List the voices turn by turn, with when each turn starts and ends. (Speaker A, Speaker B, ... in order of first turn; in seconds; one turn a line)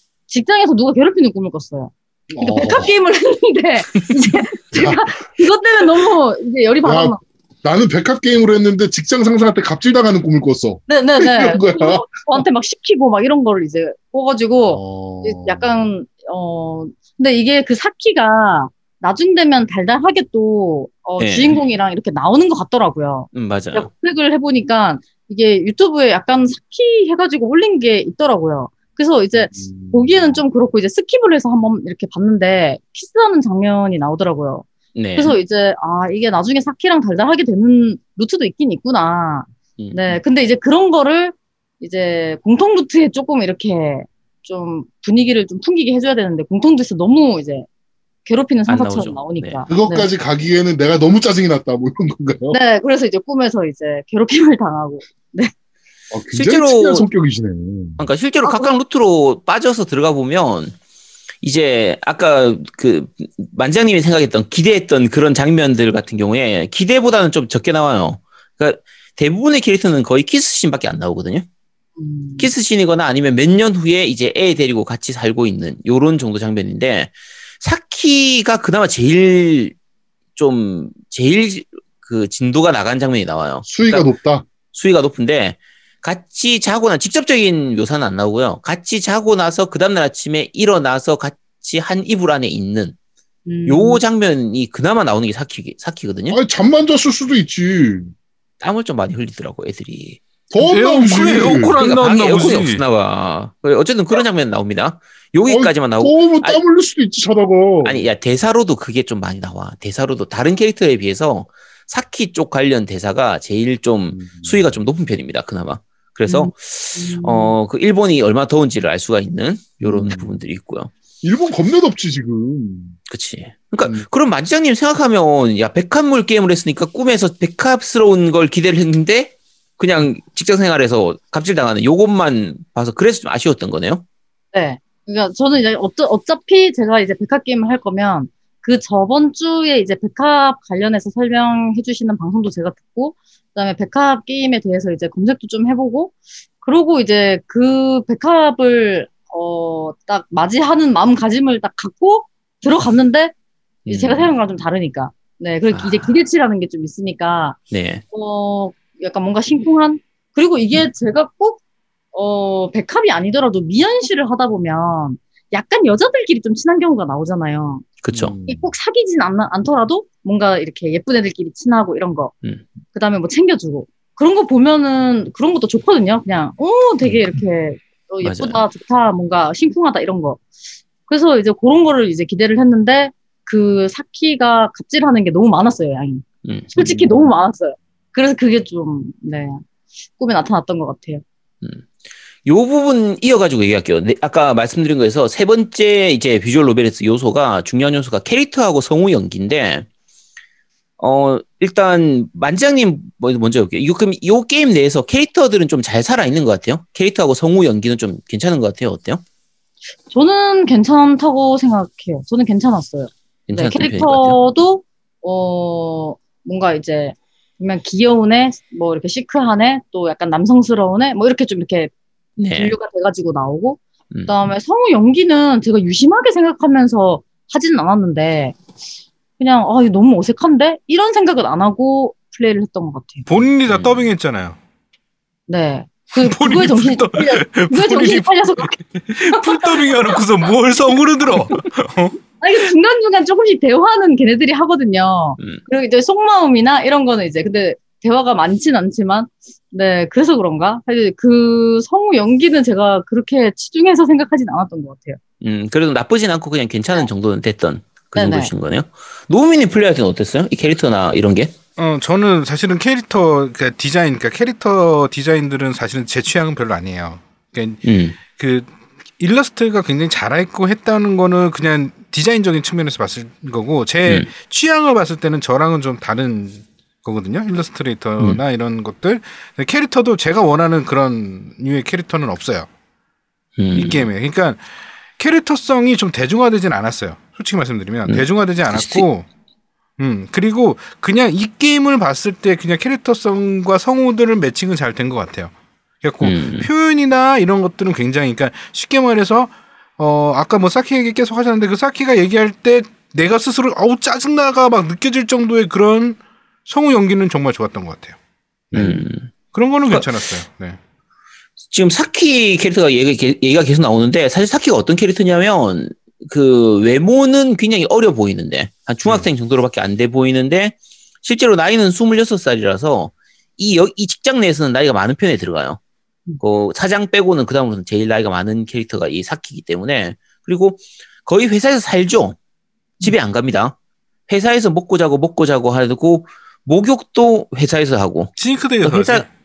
Speaker A: 0.3-7.2
Speaker B: 2.3-2.9
Speaker B: 4.7-5.1
Speaker B: 6.8-12.4
Speaker A: 10.9-47.6
Speaker B: 14.7-15.7
Speaker C: 21.2-21.6
Speaker C: 23.3-23.9
Speaker B: 29.4-30.4
Speaker C: 34.9-35.4
Speaker C: 39.8-40.1
Speaker A: 48.2-50.1
Speaker C: 48.7-49.6
Speaker B: 49.7-52.6
Speaker A: 52.5-55.5
Speaker B: 56.1-58.0
Speaker C: 56.3-57.1
Speaker C: 58.0-60.8
Speaker A: 58.4-58.7
Speaker C: 61.4-71.4
Speaker A: 72.0-72.5
Speaker C: 72.4-79.7
Speaker C: 80.3-84.1
Speaker B: 83.6-84.5
Speaker C: 84.7-92.9
Speaker A: 93.5-94.0
Speaker C: 93.7-96.4
Speaker B: 96.3-98.1
Speaker C: 98.6-100.2
Speaker B: 100.5-101.8
Speaker D: 100.6-102.8
Speaker C: 101.4-106.6
Speaker B: 105.5-108.0
Speaker C: 107.8-120.9
Speaker B: 114.1-114.8
Speaker A: 116.3-117.6
Speaker B: 119.8-120.4
Speaker B: 121.2-123.0
Speaker C: 123.1-134.0
Speaker A: 134.5-153.3
Speaker C: 153.8-154.3
Speaker A: 153.9-157.6
Speaker C: 155.7-156.1
Speaker C: 157.7-158.0
Speaker A: 158.1-161.6
Speaker A: 162.1-167.8
Speaker C: 168.0-168.4
Speaker B: 168.1-168.7
Speaker A: 168.5-172.3
Speaker A: 172.9-180.4
Speaker C: 178.2-178.6
Speaker A: 181.1-189.6
Speaker C: 186.4-186.7
Speaker B: 186.7-187.2
Speaker A: 190.2-191.2
Speaker C: 191.6-191.9
Speaker C: 192.4-199.8
Speaker C: 201.0-209.2
Speaker A: 210.1-221.9
Speaker C: 213.5-214.4
Speaker C: 222.4-222.7
Speaker A: 222.5-228.5
Speaker A: 229.4-233.2
Speaker D: 233.3-234.6
Speaker C: 233.7-234.1
Speaker A: 235.5-239.9
Speaker D: 236.2-242.2
Speaker A: 242.4-255.2
Speaker C: 255.4-261.5
Speaker A: 258.1-258.5
Speaker D: 261.8-282.7
Speaker C: 267.8-268.2
Speaker C: 283.6-284.1
Speaker D: 283.7-284.6
Speaker D: 285.2-289.2
Speaker C: 288.1-289.0
Speaker D: 290.0-308.1
Speaker C: 296.2-296.7
Speaker C: 308.7-309.3
Speaker D: 308.7-310.8
Speaker C: 309.9-310.3
Speaker C: 311.6-325.8
Speaker C: 326.4-332.4
Speaker C: 333.0-333.7
Speaker C: 334.3-339.2
Speaker D: 338.4-339.3